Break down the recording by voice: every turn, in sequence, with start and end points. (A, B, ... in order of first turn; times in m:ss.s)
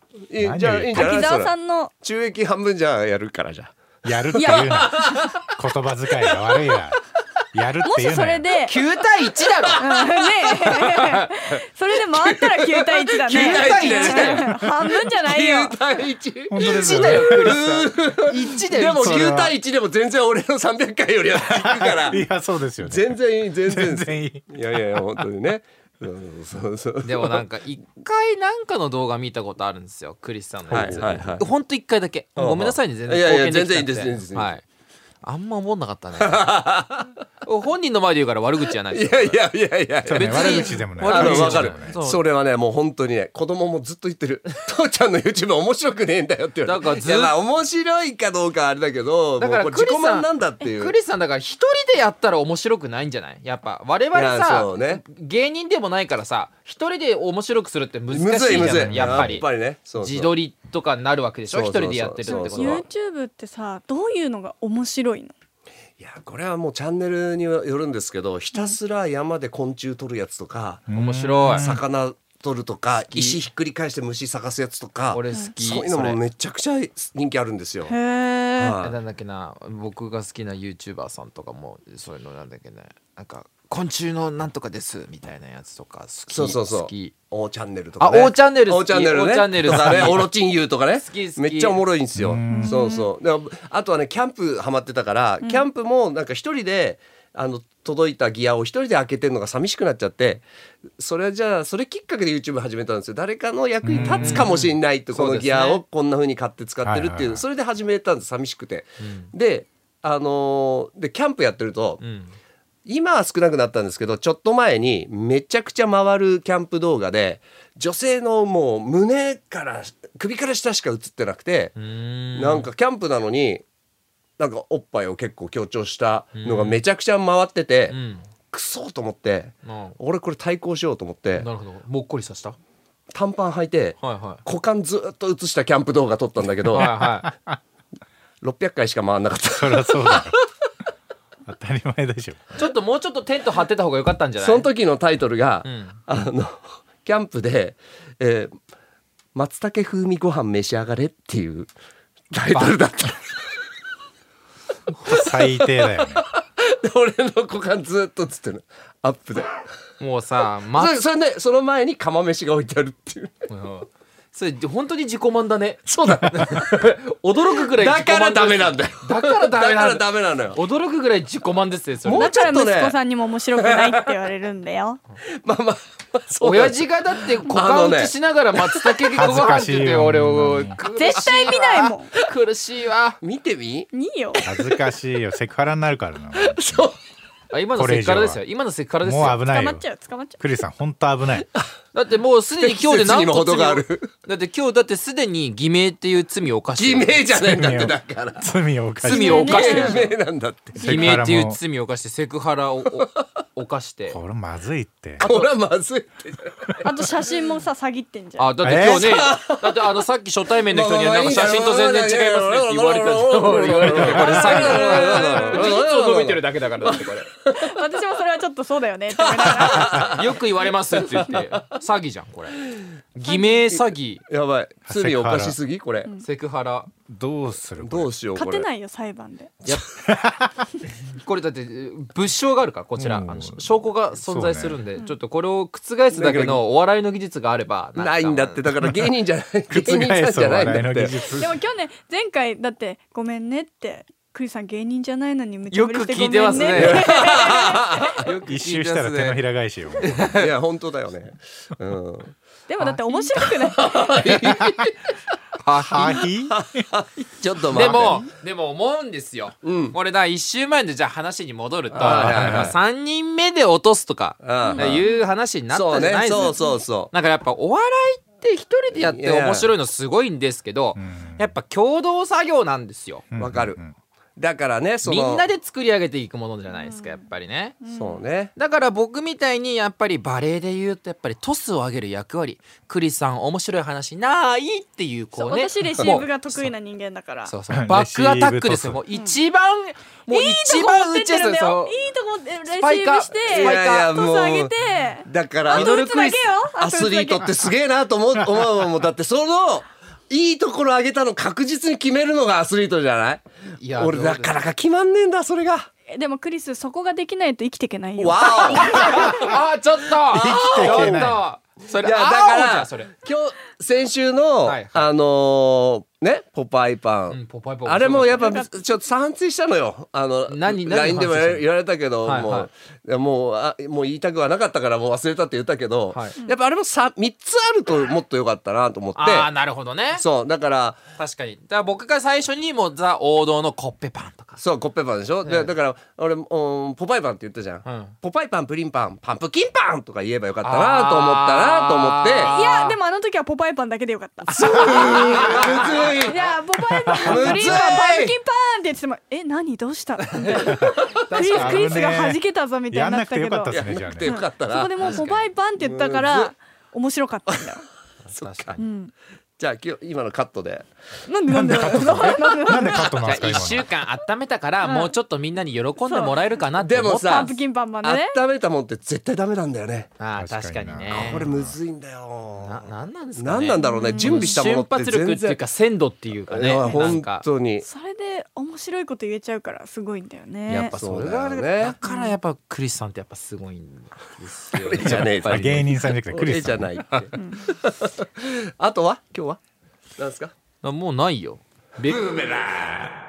0:00.3-0:05.6 A
0:00.4-0:01.2 B
0:00.9-0:01.9 C
0:04.0-0:07.0 B
0:04.4-0:05.2 C
0:06.3-0:06.8 A
0:07.5-0:08.5 B
0:07.8-0:08.8 C
0:08.7-0:09.9 D
0:09.6-0:10.6 A
0:09.8-0:15.8 C
0:12.1-0:22.3 A
0:13.3-0:14.5 D
0:16.5-0:17.8 B
0:16.6-0:19.5 D
0:18.7-0:19.5 B
0:21.4-0:25.2 B
0:22.8-0:27.4 A
0:27.0-0:34.6 D
0:30.7-0:31.4 B
0:30.7-0:31.5 A
0:32.4-0:34.5 A
0:35.2-0:36.6 D
0:36.2-0:37.1 A
0:37.4-0:39.4 D
0:38.9-0:51.0 A
0:40.1-0:42.0 B
0:40.1-0:42.2 D
0:46.6-0:47.4 D
0:49.4-1:02.8 D
0:54.1-0:55.0 A
0:58.1-1:00.3 A
0:58.5-0:59.4 B
1:01.5-1:02.8 A
1:02.3-1:05.3 C
1:06.0-1:10.9 A
1:10.9-1:11.8 B
1:10.9-1:11.7 D
1:11.5-1:18.0 A
1:13.1-1:13.4 D
1:15.1-1:16.2 D
1:17.9-1:18.8 C
1:18.6-1:19.0 A
1:18.8-1:27.1 D
1:26.3-1:40.5 A
1:28.0-1:30.3 D
1:31.0-1:31.8 D
1:32.1-1:32.7 B
1:32.5-1:33.1 C
1:41.0-1:52.0 A
1:43.8-1:44.5 B
1:43.9-1:45.8 D
1:46.8-1:47.4 B
1:49.0-1:49.3 D
1:52.0-1:52.4 D
1:52.9-2:01.7 A
2:01.8-2:02.7 D
2:02.4-2:03.6 A
2:04.4-2:08.0 A
2:06.4-2:06.8 D
2:07.9-2:08.2 D
2:08.5-2:11.5 A
2:09.6-2:10.0 D
2:11.4-2:12.6 D
2:13.1-2:16.9 A
2:14.0-2:14.4 D
2:16.7-2:17.3 D
2:16.7-2:17.6 B
2:18.4-2:20.5 A
2:19.6-2:20.4 B
2:21.5-2:22.7 B
2:22.6-2:24.7 D
2:24.4-2:28.6 A
2:25.6-2:26.0 D
2:29.4-2:31.7 A
2:32.3-2:33.5 A
2:32.5-2:32.8 D
2:35.0-2:36.2 B
2:35.1-2:39.6 A
2:40.0-2:41.0 D
2:40.7-2:43.5 A
2:43.5-2:52.3 D
2:45.9-2:47.0 A
2:47.6-2:50.6 A
2:52.1-2:53.0 A
2:52.1-2:55.0 C
2:53.6-2:54.1 A
2:55.4-2:59.6 A
2:56.4-3:03.2 D
2:59.1-3:00.8 B
3:00.8-3:02.1 C
3:03.2-3:04.8 A
3:03.9-3:04.4 C
3:04.4-3:06.9 B
3:06.4-3:07.0 A
3:07.5-3:09.4 D
3:07.8-3:08.4 B
3:09.0-3:09.8 B
3:09.5-3:10.4 C
3:10.4-3:11.5 B
3:11.9-3:17.3 D
3:12.6-3:14.1 A
3:16.8-3:20.8 A
3:17.4-3:19.4 B
3:19.1-3:20.1 C
3:19.3-3:20.1 D
3:20.8-3:21.6 B
3:20.8-3:24.2 D
3:24.1-3:25.2 B
3:25.2-3:25.5 D
3:25.2-3:26.8 A
3:26.8-3:28.5 C
3:28.4-3:37.3 D
3:28.6-3:29.2 B
3:28.8-3:29.9 A
3:30.7-3:37.7 A
3:34.2-3:35.8 C
3:37.5-3:40.1 C
3:39.2-3:40.4 A
3:39.8-3:44.2 D
3:40.9-3:41.6 A
3:43.2-3:43.6 C
3:43.7-3:46.1 A
3:44.9-3:45.6 B
3:46.2-3:46.9 D
3:47.1-3:48.1 B
3:47.8-3:48.7 A
3:48.4-3:49.5 C
3:50.1-3:50.6 B
3:51.1-3:58.6 D
3:53.0-3:54.8 B
3:56.1-3:56.6 A
3:58.0-4:01.2 A
3:58.8-3:59.1 B
3:59.7-4:01.6 B
4:01.3-4:08.2 C
4:05.7-4:07.4 D
4:06.6-4:08.4 A
4:08.2-4:09.4 D
4:08.4-4:10.2 B
4:10.0-4:10.5 D
4:10.1-4:12.4 A
4:12.7-4:14.2 C
4:13.6-4:15.0 A
4:14.5-4:14.8 B
4:15.6-4:16.3 D
4:15.8-4:16.9 B
4:16.5-4:18.3 A
4:17.7-4:33.2 D
4:19.6-4:20.0 A
4:21.9-4:22.8 A
4:22.0-4:22.8 B
4:24.4-4:25.1 A
4:24.6-4:25.2 C
4:25.7-4:27.1 A
4:26.4-4:26.7 C
4:28.9-4:29.7 A
4:31.0-4:31.5 B
4:33.3-4:34.0 B
4:33.4-4:33.8 A
4:34.4-4:35.5 A
4:35.0-4:37.8 D
4:36.7-4:37.2 C
4:37.8-4:38.2 C
4:37.9-4:38.5 A
4:38.6-4:46.7 D
4:45.4-4:47.5 C
4:47.5-4:52.0 D
4:47.7-4:49.0 B
4:49.1-4:49.4 C
4:50.3-4:57.5 C
4:52.7-4:54.2 D
4:53.5-4:54.7 A
4:55.2-4:56.1 A
4:55.7-4:56.5 D
4:56.7-5:05.9 A
5:03.8-5:04.6 D
5:06.1-5:09.2 C
5:08.2-5:09.6 A
5:08.5-5:13.2 D
5:10.3-5:11.4 A
5:10.3-5:11.4 B
5:12.0-5:29.5 A
5:14.6-5:15.1 D
5:17.3-5:18.6 D
5:18.4-5:18.7 C
5:20.5-5:21.7 D
5:22.2-5:22.7 D
5:29.2-5:30.2 D
5:30.1-5:31.0 A
5:31.2-5:34.6 D
5:34.6-5:42.5 A
5:35.4-5:35.7 D
5:37.8-5:38.1 D
5:40.6-5:43.0 D
5:42.4-5:45.6 C
5:44.5-5:46.2 D
5:44.5-5:46.6 A
5:46.2-5:57.8 C
5:47.1-5:47.4 B
5:47.1-5:48.4 A
5:47.4-5:48.1 D
5:51.1-5:51.6 A
5:51.3-5:51.9 D
5:51.5-5:52.4 B
5:52.9-5:54.4 B
5:53.7-5:55.0 A
5:55.0-5:55.4 D
5:55.8-5:56.5 A
5:58.3-5:58.8 D
5:58.3-5:58.8 A
5:58.8-5:59.1 C
5:59.6-6:00.9 A
6:01.3-6:03.2 C
6:01.5-6:03.9 B
6:03.2-6:07.5 D
6:04.8-6:05.1 C
6:06.0-6:06.4 C
6:06.8-6:10.1 A
6:07.0-6:08.4 C
6:10.2-6:11.5 D
6:10.4-6:11.8 B
6:11.1-6:15.6 A
6:12.6-6:17.4 D
6:13.8-6:14.6 C
6:16.5-6:17.9 A
6:16.9-6:17.1 C
6:17.8-6:21.0 C
6:20.7-6:25.8 D
6:21.0-6:22.0 A
6:22.0-6:22.4 C
6:24.7-6:29.6 A
6:25.0-6:27.0 B
6:27.4-6:27.6 C
6:30.2-6:30.5 A
6:30.8-6:32.2 D